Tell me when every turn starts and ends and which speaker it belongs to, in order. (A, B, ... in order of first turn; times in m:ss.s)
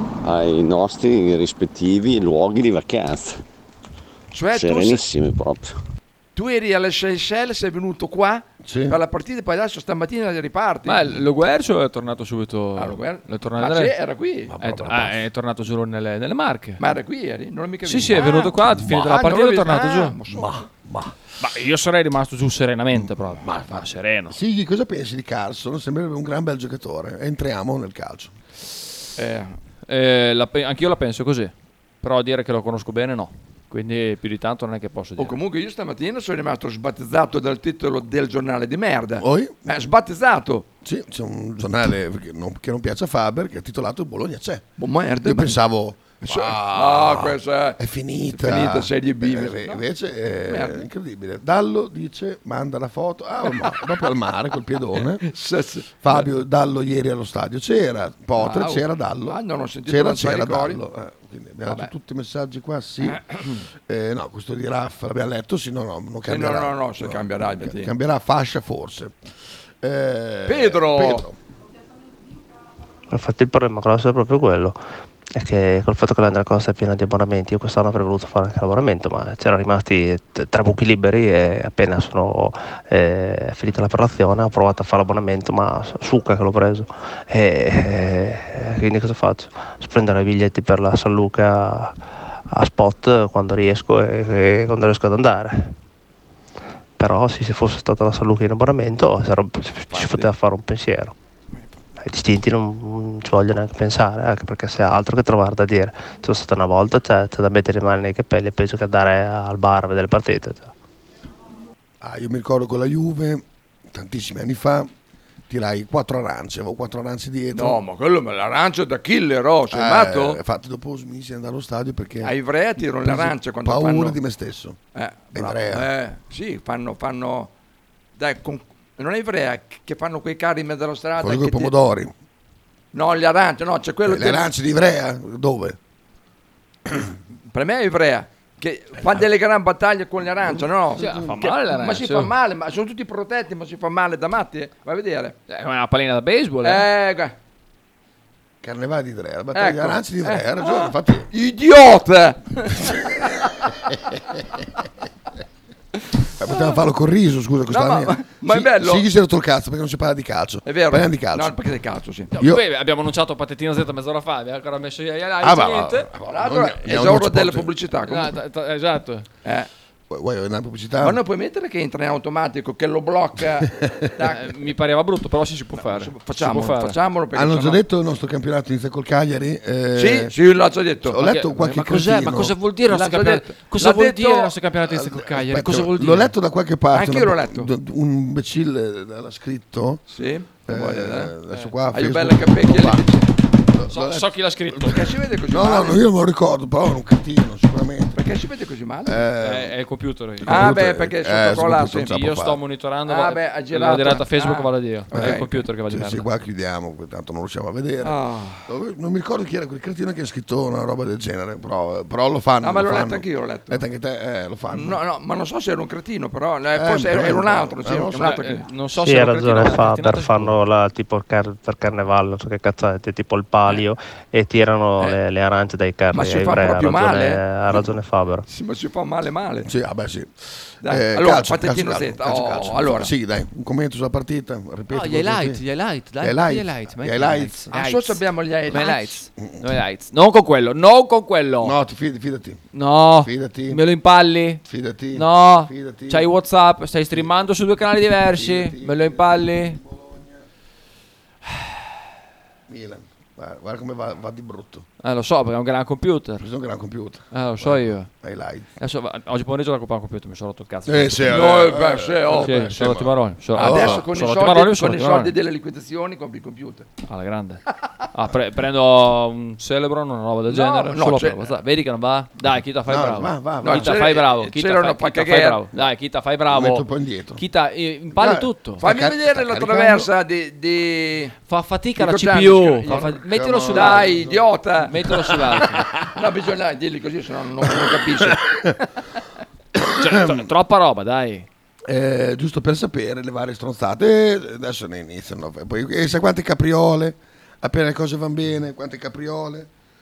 0:00.2-0:03.4 A
0:04.3-0:05.1 B
0:04.5-0:05.8 A
0:06.4-0:11.1 B
0:08.6-0:09.0 C
0:10.8-0:13.9 D
0:12.8-0:14.5 B
0:14.5-0:15.2 C
0:14.6-0:16.8 D
0:16.8-0:20.7 B
0:17.8-0:20.1 D
0:20.3-0:21.1 C
0:21.4-0:24.4 D
0:23.4-0:28.3 C
0:29.2-0:29.5 B
0:29.9-0:35.4 D
0:35.2-0:40.6 B
0:39.2-0:39.6 C
0:40.8-0:44.6 C
0:44.8-0:45.6 B
0:45.2-0:55.2 C
0:46.2-0:49.8 B
0:50.5-0:50.8 B
0:53.6-0:53.9 B
0:54.9-0:56.3 B
0:56.0-1:09.1 C
0:58.4-1:00.8 B
1:03.1-1:03.4 B
1:06.3-1:07.9 B
1:09.8-1:11.4 C
1:10.4-1:11.2 B
1:13.1-1:14.8 E
1:15.3-1:32.0 E
1:32.5-1:35.7 E
1:37.0-1:41.1 E
1:42.0-1:50.7 E
1:52.0-1:54.9 C
1:55.5-1:57.8 C
1:57.5-2:00.4 B
1:59.7-2:02.3 C
2:02.2-2:04.2 B
2:03.0-2:04.8 C
2:04.9-2:07.5 B
2:05.3-2:05.8 C
2:08.2-2:11.7 B
2:11.2-2:12.1 C
2:12.9-2:14.5 B
2:14.0-2:15.8 C
2:17.5-2:25.4 B
2:21.0-2:21.4 C
2:21.0-2:22.3 D
2:25.5-2:26.8 D
2:26.6-2:27.3 B
2:28.6-2:31.3 C
2:29.5-2:33.5 B
2:36.4-2:41.5 C
2:37.7-2:39.0 B
2:40.6-2:42.3 B
2:42.3-2:46.1 D
2:42.4-2:42.6 C
2:45.4-2:47.7 C
2:46.3-2:48.4 B
2:48.1-2:49.2 D
2:49.4-2:49.7 B
2:50.1-2:51.2 C
2:51.0-2:54.6 B
2:53.8-2:54.1 C
2:54.2-2:57.0 D
2:55.8-2:57.8 B
2:57.3-3:00.3 C
3:00.0-3:01.2 B
3:01.0-3:02.5 C
3:01.2-3:06.3 D
3:02.9-3:04.5 B
3:04.8-3:10.0 C
3:06.9-3:07.7 B
3:10.1-3:11.3 B
3:10.7-3:13.0 C
3:11.9-3:13.3 B
3:13.7-3:18.2 C
3:13.9-3:15.0 D
3:14.8-3:16.0 B
3:18.1-3:19.2 B
3:19.0-3:19.7 C
3:19.4-3:20.8 D
3:20.4-3:22.6 C
3:20.4-3:22.1 B
3:22.1-3:26.3 D
3:23.0-3:25.5 B
3:25.1-3:35.0 C
3:28.0-3:28.7 B
3:32.6-3:33.8 B
3:34.7-3:38.6 B
3:36.7-3:38.4 C
3:38.2-3:40.5 D
3:39.0-3:48.4 E
3:46.1-3:47.4 B
3:48.5-3:49.7 B
3:49.6-3:50.3 C
3:50.8-3:53.1 B
3:50.8-3:55.6 C
3:54.9-4:01.8 D
3:56.2-3:57.7 C
3:57.7-3:59.2 B
4:01.6-4:02.6 C
4:02.7-4:04.6 D
4:03.2-4:03.8 C
4:04.6-4:06.3 C
4:05.1-4:09.8 D
4:08.3-4:10.4 C
4:12.7-4:14.8 C
4:15.0-4:16.4 D
4:16.4-4:18.7 C
4:17.3-4:18.1 D
4:18.8-4:21.4 D
4:20.8-4:24.0 C
4:21.3-4:22.7 B
4:22.3-4:25.3 D
4:23.6-4:26.9 B
4:27.1-4:38.8 D
4:30.5-4:31.5 B
4:32.9-4:34.0 C
4:33.6-4:35.6 B
4:36.5-4:37.4 C
4:38.2-4:40.1 C
4:38.8-4:41.3 B
4:41.5-4:44.2 D
4:42.0-4:45.0 B
4:42.9-4:44.4 C
4:44.8-4:45.8 D
4:46.1-4:48.7 B
4:47.8-4:48.7 C
4:49.8-4:50.4 C
4:49.9-4:51.5 D
4:51.9-4:59.7 C